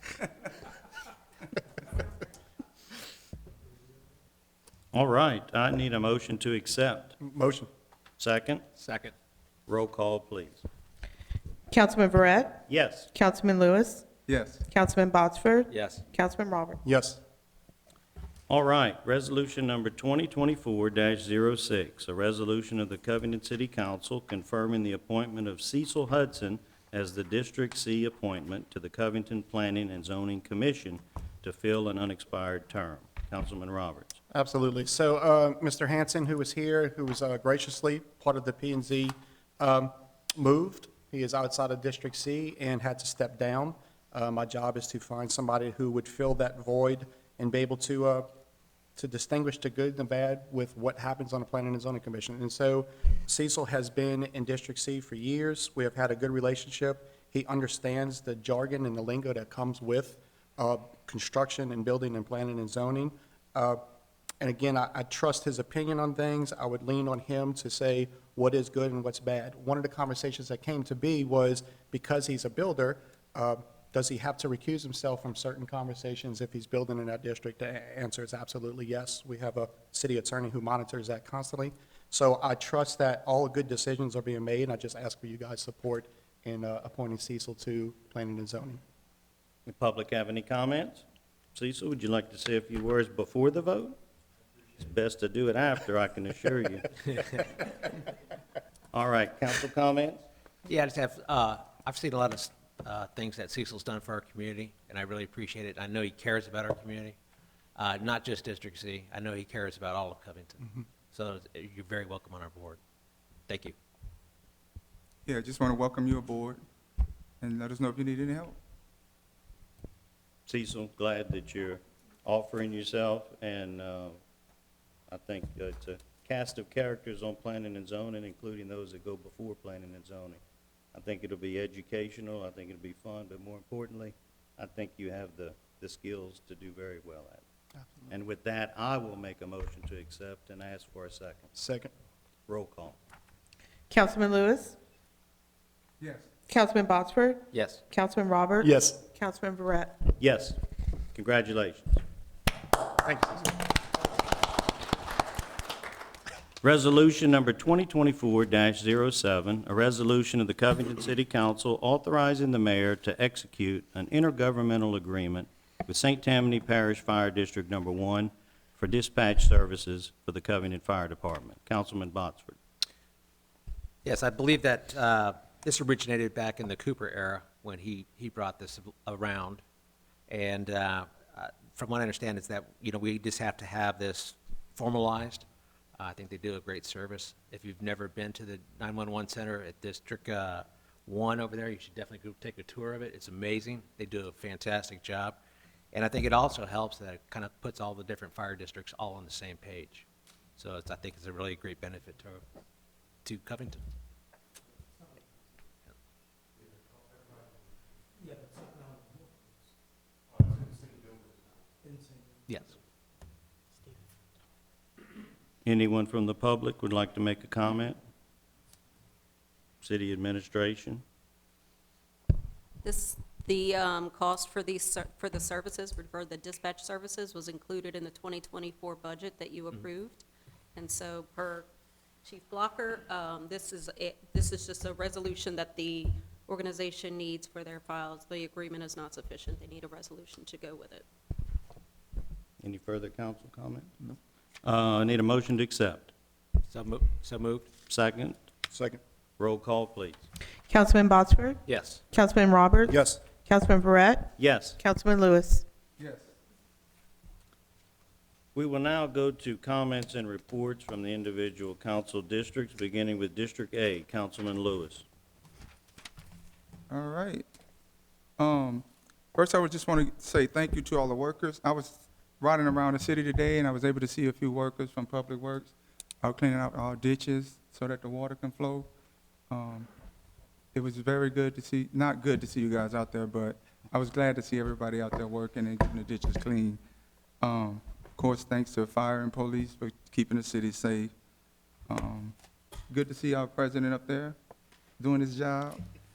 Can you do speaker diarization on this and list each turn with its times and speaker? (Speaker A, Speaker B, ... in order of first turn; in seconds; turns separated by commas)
Speaker A: 4.9-7.2, Speaker B: 7.2-7.7, Speaker A: 8.2-8.6, Speaker C: 8.8-9.1, Speaker A: 9.7-10.6, Speaker D: 11.7-14.0, Speaker A: 12.7-13.1, Speaker E: 14.3-14.6, Speaker D: 14.7-16.8, Speaker C: 15.7-16.0, Speaker B: 16.8-17.2, Speaker A: 18.5-34.2, Speaker B: 34.3-48.3, Speaker B: 49.0-63.8, Speaker B: 64.4-88.8, Speaker A: 89.7-91.0, Speaker A: 91.5-94.0, Speaker A: 94.8-96.8, Speaker A: 98.9-100.2, Speaker C: 100.7-107.2, Speaker C: 107.8-112.8, Speaker C: 113.5-113.8, Speaker E: 115.3-116.6, Speaker E: 117.4-118.6, Speaker A: 120.5-124.2, Speaker A: 125.1-130.4, Speaker A: 130.9-137.4, Speaker A: 138.1-141.5, Speaker B: 141.6-141.9, Speaker A: 142.5-143.0, Speaker D: 143.9-144.8, Speaker E: 146.0-146.3, Speaker D: 146.5-150.0, Speaker C: 147.5-147.8, Speaker B: 148.6-149.0, Speaker A: 150.2-150.6, Speaker A: 151.2-152.0, Speaker B: 153.1-153.5, Speaker A: 156.6-172.6, Speaker C: 174.1-179.6, Speaker C: 180.3-185.5, Speaker C: 186.0-195.4, Speaker C: 195.9-200.1, Speaker C: 200.6-202.4, Speaker C: 203.2-203.8, Speaker C: 212.5-212.8, Speaker A: 215.6-218.0, Speaker A: 219.8-221.0, Speaker F: 222.8-230.2, Speaker F: 230.8-231.7, Speaker F: 232.2-241.0, Speaker A: 242.6-243.9, Speaker A: 244.6-246.1, Speaker C: 246.6-247.7, Speaker A: 247.9-248.4, Speaker B: 248.7-249.0, Speaker A: 249.4-250.2, Speaker D: 250.7-255.6, Speaker C: 251.7-252.0, Speaker B: 252.9-253.2, Speaker A: 254.4-254.8, Speaker E: 256.0-256.3, Speaker A: 258.6-265.1, Speaker E: 266.9-267.4, Speaker E: 268.4-278.9, Speaker E: 279.5-279.9, Speaker E: 280.7-286.8, Speaker E: 287.4-291.1, Speaker E: 291.9-292.3, Speaker E: 292.9-294.4, Speaker E: 295.0-295.8